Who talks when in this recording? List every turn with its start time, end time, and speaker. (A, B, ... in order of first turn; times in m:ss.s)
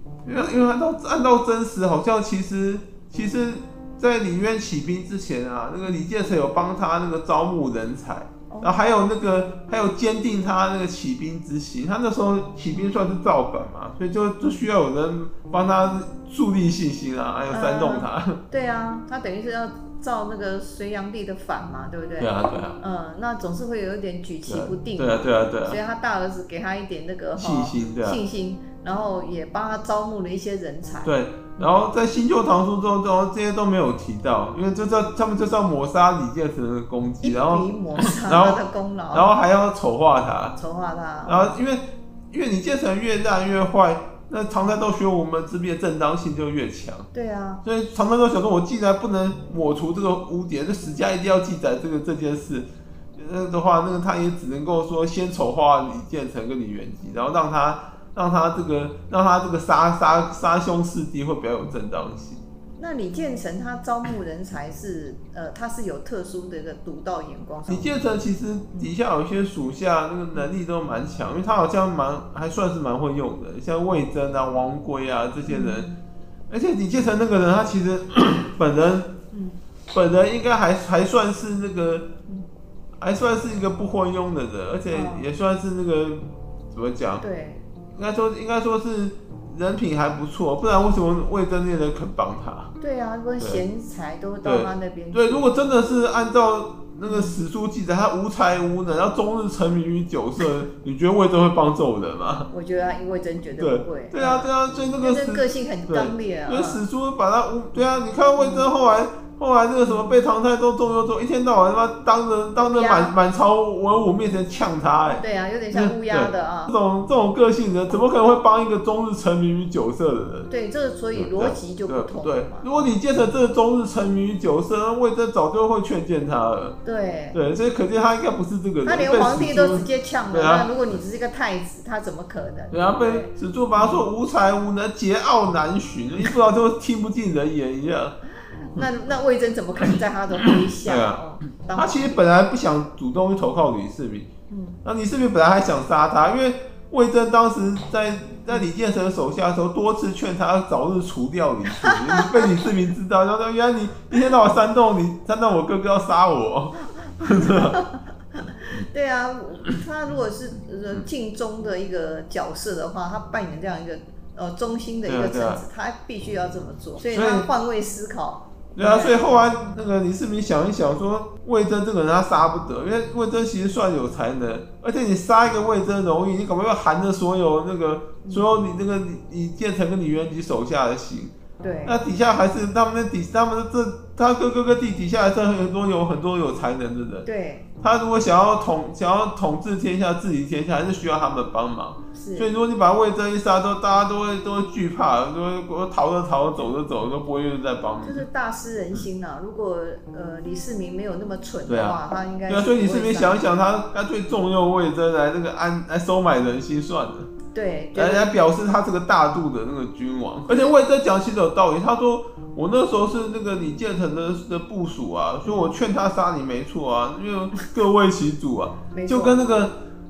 0:00.2-0:18.4 A
0:08.5-0:08.8 B
0:14.4-0:14.7 B
0:17.5-0:31.8 B
0:22.2-0:22.8 A
0:24.5-0:25.8 A
0:27.4-0:28.2 A
0:31.0-0:40.6 A
0:37.2-0:39.3 B
0:40.6-0:41.6 B
0:41.3-0:47.1 A
0:47.1-0:47.6 B
0:47.6-1:02.4 A
1:02.8-1:07.9 B
1:07.7-1:15.9 A
1:15.5-1:16.0 B
1:16.5-1:19.1 A
1:19.3-1:19.6 B
1:19.9-1:22.1 A
1:23.0-1:27.2 A
1:24.9-1:25.3 B
1:27.2-1:27.6 B
1:28.0-1:32.7 A
1:32.8-1:35.6 B
1:34.4-1:42.5 A
1:37.1-1:37.4 B
1:42.5-1:46.8 B
1:43.6-2:00.5 A
1:48.4-1:48.7 B
1:49.9-1:50.1 B
1:52.6-1:53.1 B
1:55.1-1:56.7 B
2:00.5-2:02.9 B
2:01.2-2:06.8 A
2:06.8-2:07.4 B
2:07.3-2:11.0 A
2:08.8-2:14.0 B
2:12.7-2:18.2 A
2:18.5-2:22.2 B
2:19.8-2:24.3 A
2:24.5-2:24.8 B
2:24.8-2:37.8 A
2:31.8-2:32.6 B
2:37.2-2:49.5 B
2:45.1-2:45.6 A
2:47.1-2:47.5 A
2:48.8-3:01.3 A
3:01.6-3:02.0 B
3:01.8-3:07.3 A
3:07.2-3:07.6 B
3:07.8-3:18.3 A
3:12.1-3:12.5 B
3:18.0-3:23.5 B
3:21.7-3:27.3 A
3:27.5-3:28.3 B
3:28.0-3:39.8 A
3:30.5-3:30.7 B
3:35.4-3:35.8 B
3:38.9-3:39.4 B